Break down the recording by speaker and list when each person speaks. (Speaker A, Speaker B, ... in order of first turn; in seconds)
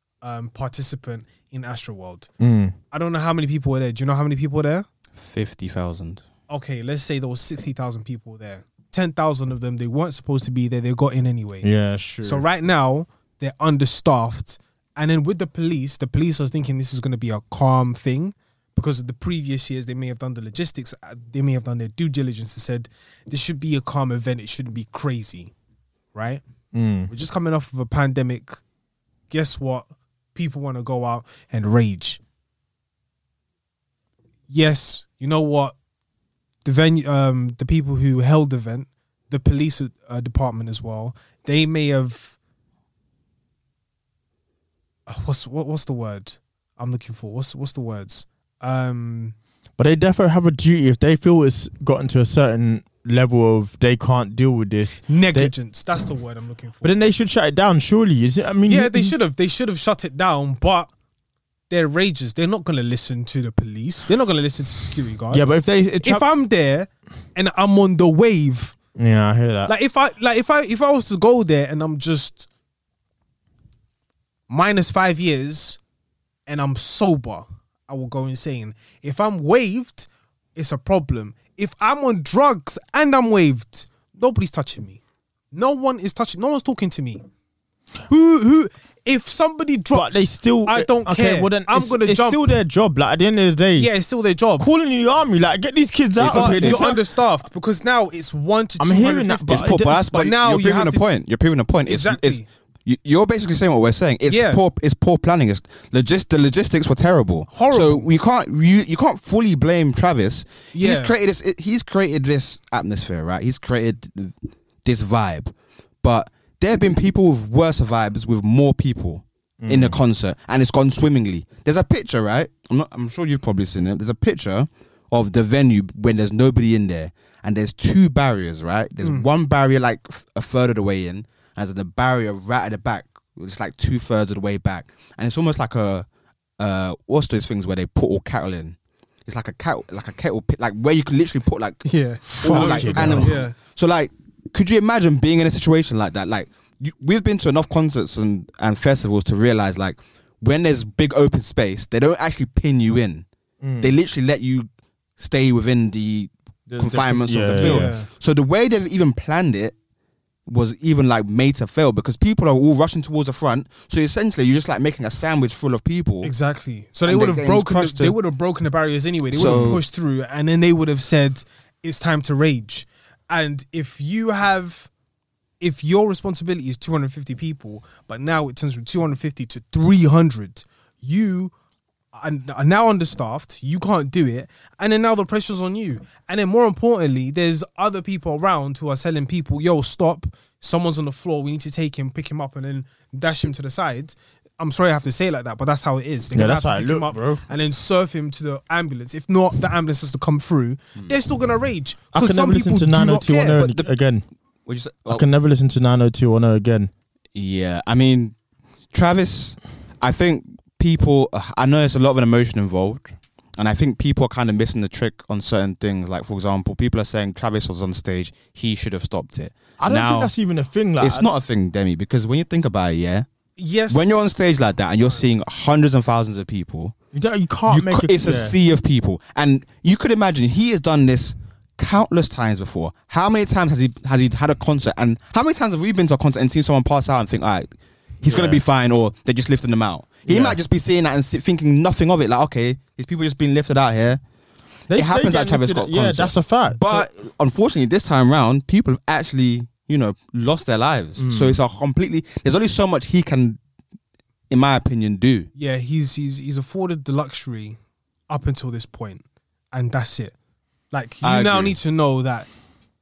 Speaker A: 0.2-2.3, 2.9-4.9, 6.5-11.7, 12.2-25.5, 26.1-26.4, 27.1-28.6, 29.3-32.2, 34.5-35.7, 36.6-42.4, 45.1-49.3, 55.1-56.9, 58.6-60.9, 61.7-68.8, 69.7-72.5, 74.5-75.8, 76.5-85.0, 85.5-87.2, 88.1-92.4, 93.8-94.7, 96.2-101.0, 101.9-102.4, 104.3-104.6, 107.5-108.1, 110.7-111.1, 129.0-129.3, 141.8-143.5, 157.5-158.1, 166.2-174.9, 175.6-181.5, 182.1-203.8, 223.6-224.2, 255.6-257.8, 258.3-260.3, 260.9-262.5
Speaker B: 2.4-2.8, 11.6-12.4, 26.7-27.1, 49.8-55.5, 56.8-59.1, 65.3-66.3, 69.0-69.7, 89.9-93.9, 94.6-97.0, 98.8-100.1, 119.6-120.0, 142.3-143.4, 153.6-153.9, 156.7-157.9, 169.3-169.8, 196.3-197.4, 202.1-204.2, 205.1-206.9, 219.8-221.3, 227.1-228.6, 238.2-238.6, 240.3-240.6, 244.9-247.1, 251.2-251.6
Speaker C: 5.2-6.2, 96.2-96.9, 99.5-136.1, 136.6-153.2, 153.8-154.7, 155.2-159.7, 160.5-166.3, 167.1-168.2, 169.3-169.8, 204.7-205.2, 207.3-208.3, 208.9-220.3, 221.0-223.2, 223.9-226.9, 227.7-237.7, 238.2-244.2, 244.9-253.6, 254.5-255.5, 261.2-261.8